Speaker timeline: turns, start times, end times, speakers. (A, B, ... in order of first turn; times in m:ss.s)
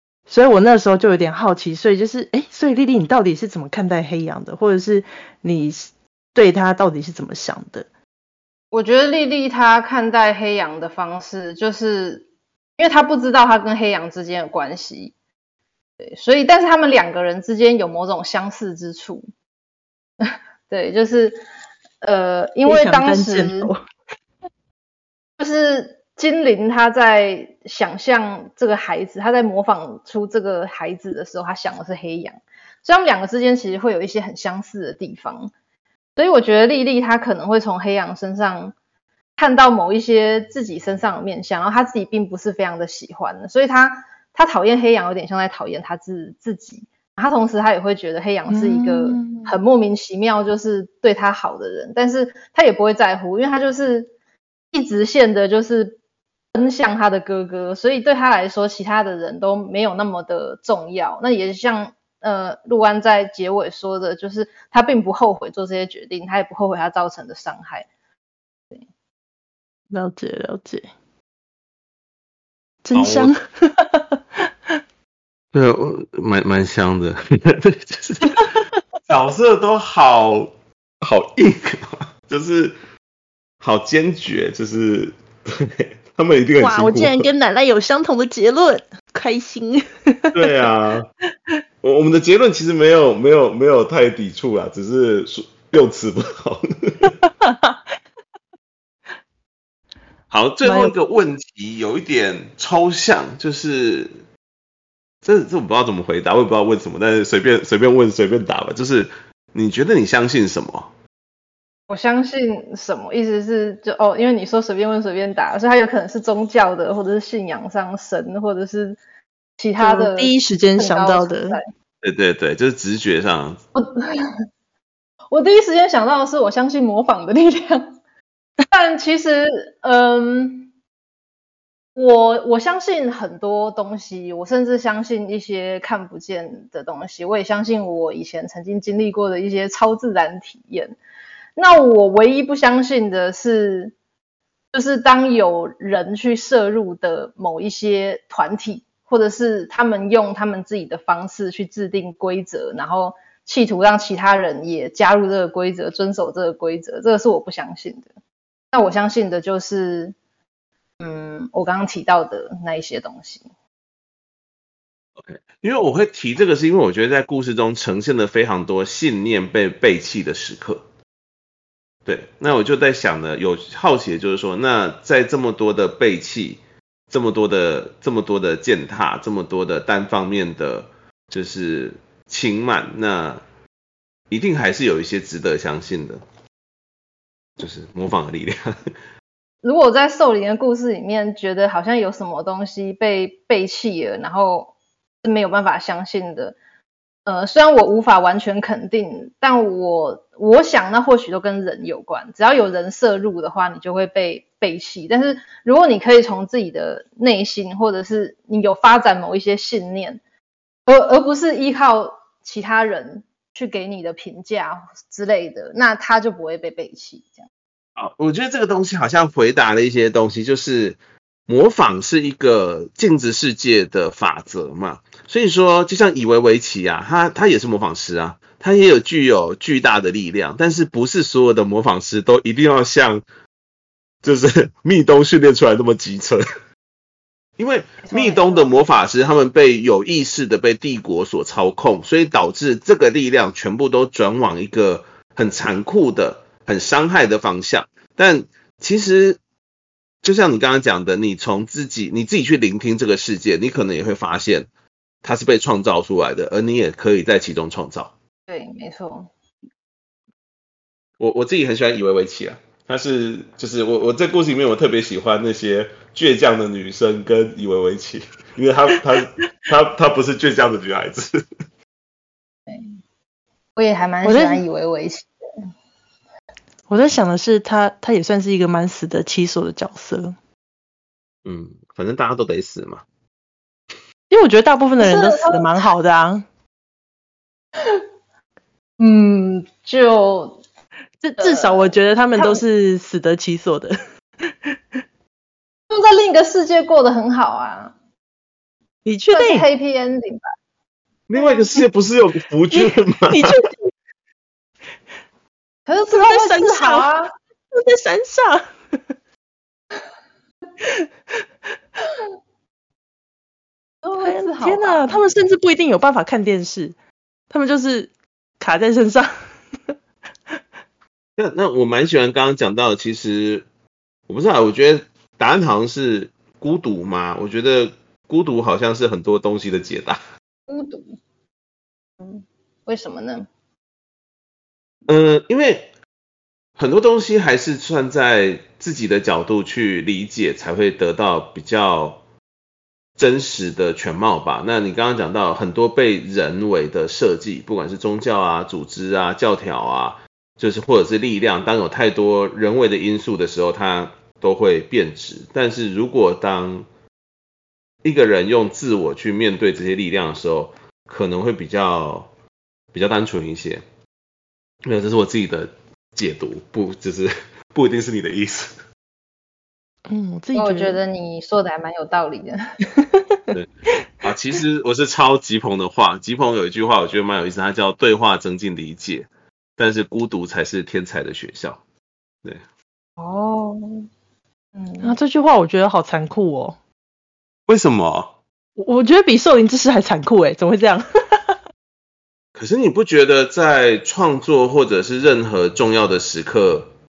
0:00.3-0:07.9 A
0:08.7-0:12.3 B
0:12.8-0:15.1 B
0:16.1-0:19.3 B
0:20.2-0:21.4 B
0:22.0-0:23.7 B
0:22.6-0:23.8 A
0:25.4-0:35.5 B
0:36.2-0:38.7 B
0:39.4-0:54.1 B
0:48.5-0:49.6 A
0:54.7-0:56.0 B
0:56.5-1:07.9 B
1:09.9-1:10.9 A
1:12.8-1:14.4 A
1:12.9-1:13.3 C
1:15.5-1:18.5 C
1:19.1-1:22.8 C
1:23.6-1:27.3 C
1:26.6-1:30.3 A
1:30.3-1:31.1 C
1:31.8-1:37.1 C
1:37.4-1:37.8 A
1:40.3-1:44.1 C
1:40.6-1:40.9 A
1:45.2-1:50.9 C
1:51.9-1:59.0 B
1:59.6-2:01.6 B
1:59.8-2:01.6 A
2:02.0-2:03.6 C
2:03.8-2:04.3 B
2:05.3-2:07.9 B
2:08.7-2:10.7 B
2:12.0-2:21.0 B
2:21.6-2:23.9 B
2:24.7-2:38.1 B
2:38.7-2:40.2 B
2:41.0-2:43.4 B
2:45.2-2:50.8 C
2:52.1-3:03.4 C
3:04.3-3:06.2 C
3:07.6-3:08.7 C
3:09.6-3:14.7 B
3:15.2-3:16.6 B
3:17.3-3:30.2 B
3:30.9-3:37.5 B
3:38.0-3:53.2 C
3:54.2-3:56.4 C
3:57.6-4:09.4 C
3:58.0-3:58.7 B
4:10.2-4:14.7 C
4:15.2-4:18.1 C
4:18.5-4:19.3 B
4:21.2-4:31.4 C
4:33.8-4:35.3 B
4:34.2-4:34.6 A
4:36.9-4:40.4 A
4:41.4-4:43.0 C
4:44.3-4:46.4 A
4:45.0-4:45.7 B
4:49.0-4:50.6 B
4:51.2-4:54.0 A
4:51.4-4:52.6 B
4:54.5-4:54.7 A
4:55.9-4:57.9 B
4:59.0-4:59.7 A
4:59.3-5:00.4 B
5:01.3-5:03.6 C
5:01.4-5:01.7 B
5:02.7-5:03.9 A
5:05.9-5:07.3 B
5:06.1-5:07.1 A
5:07.8-5:08.7 A
5:14.0-5:15.2 B
5:14.2-5:17.0 A
5:17.5-5:19.3 A
5:21.4-5:23.7 C
5:24.3-5:30.2 C
5:30.7-5:31.2 B
5:32.2-5:33.5 B
5:35.1-5:35.9 C
5:36.8-5:42.2 C
5:43.2-5:56.9 C
5:58.0-6:02.3 C
6:02.9-6:03.8 C
6:04.9-6:08.8 C
6:10.1-6:11.0 A
6:10.6-6:12.6 B
6:14.2-6:21.8 C
6:23.2-6:24.0 B
6:24.8-6:25.2 B
6:25.0-6:26.8 A
6:27.7-6:28.4 C
6:28.8-6:31.0 A
6:32.6-6:36.9 C